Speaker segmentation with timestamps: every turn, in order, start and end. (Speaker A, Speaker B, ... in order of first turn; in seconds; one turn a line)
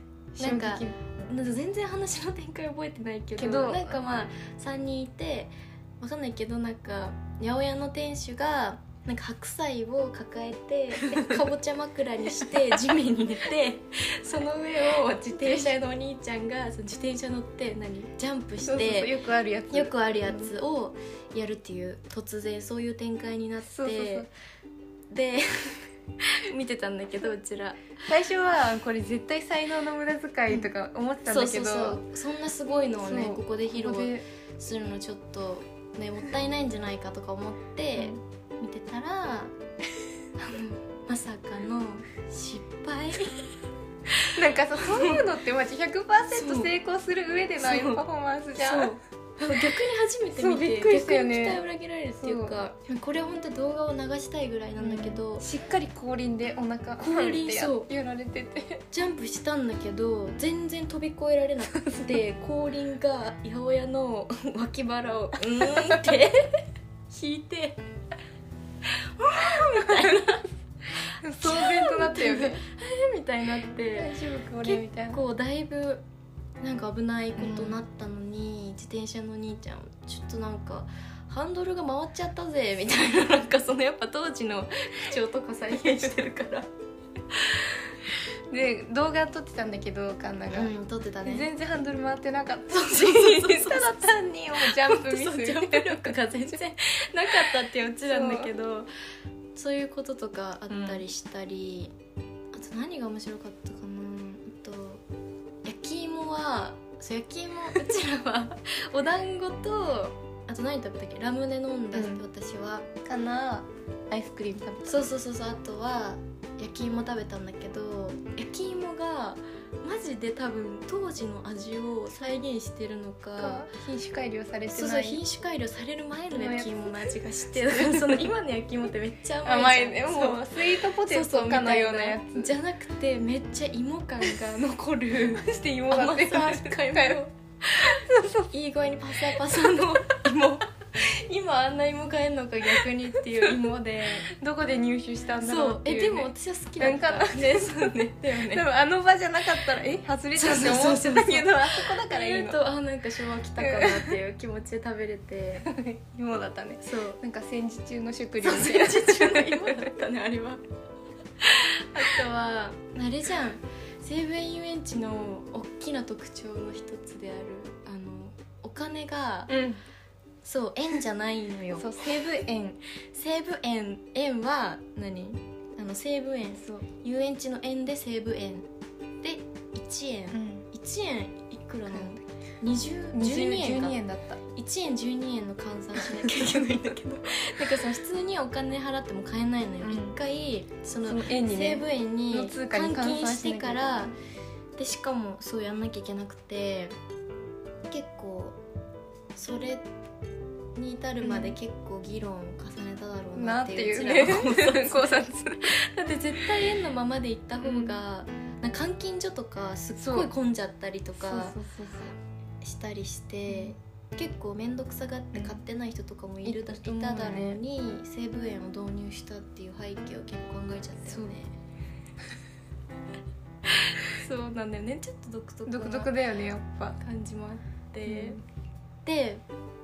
Speaker A: 0.4-1.0
Speaker B: 0.4-19.1
Speaker A: 3.4-4.0
Speaker A: 15.3-15.7
Speaker A: 18.7-20.5
Speaker B: 19.7-24.3
Speaker A: 23.7-24.3
Speaker B: 25.1-27.8
Speaker A: 28.1-32.0
Speaker B: 31.3-39.5
Speaker A: 33.0-34.2
Speaker B: 40.4-43.5
Speaker A: 44.3-49.0
Speaker B: 44.8-45.2
Speaker B: 46.3-46.7
Speaker B: 47.6-48.0
Speaker B: 48.6-55.5
Speaker A: 50.3-51.6
Speaker A: 52.2-52.6
Speaker A: 54.8-58.8
Speaker B: 57.0-57.9
Speaker B: 58.9-66.5
Speaker A: 61.7-62.2
Speaker B: 67.1-67.8
Speaker B: 68.9-70.5
Speaker A: 71.2-72.6
Speaker B: 71.4-76.0
Speaker A: 74.0-75.2
Speaker B: 76.6-86.7
Speaker A: 77.4-77.8
Speaker A: 88.5-90.7
Speaker B: 90.5-91.5
Speaker A: 91.3-96.2
Speaker B: 92.7-98.9
Speaker A: 98.0-98.5
Speaker B: 99.5-101.9
Speaker A: 100.7-101.0
Speaker B: 102.5-105.0
Speaker B: 105.7-112.9
Speaker A: 111.9-112.2
Speaker A: 113.0-115.0
Speaker B: 114.9-123.7
Speaker A: 123.4-125.2
Speaker B: 124.7-137.9
Speaker A: 126.3-128.3
Speaker A: 129.4-132.5
Speaker A: 135.3-137.2
Speaker A: 137.7-138.5
Speaker B: 138.5-144.3
Speaker A: 144.2-147.8
Speaker B: 145.4-148.7
Speaker A: 148.4-152.6
Speaker B: 150.3-155.7
Speaker A: 153.6-154.2
Speaker A: 155.7-159.9
Speaker B: 156.8-157.2
Speaker B: 158.4-160.6
Speaker B: 161.4-169.6
Speaker A: 169.5-169.8
Speaker B: 170.4-172.2
Speaker A: 171.8-172.8
Speaker B: 173.1-178.7
Speaker B: 179.2-184.0
Speaker A: 180.3-180.7
Speaker A: 181.9-182.2
Speaker A: 183.1-184.4
Speaker B: 184.5-194.2
Speaker A: 186.3-186.6
Speaker A: 189.8-190.2
Speaker A: 191.1-194.1
Speaker B: 194.8-196.9
Speaker B: 197.9-198.6
Speaker B: 199.3-199.9
Speaker B: 200.8-211.6
Speaker A: 201.2-201.6
Speaker A: 203.4-205.8
Speaker A: 207.6-208.0
Speaker A: 210.0-210.3
Speaker A: 211.2-212.1
Speaker B: 212.6-221.5
Speaker A: 215.3-215.6
Speaker A: 216.4-217.6
Speaker B: 224.1-226.1
Speaker A: 225.7-227.0
Speaker B: 227.0-228.4
Speaker A: 228.1-228.4
Speaker B: 229.1-229.4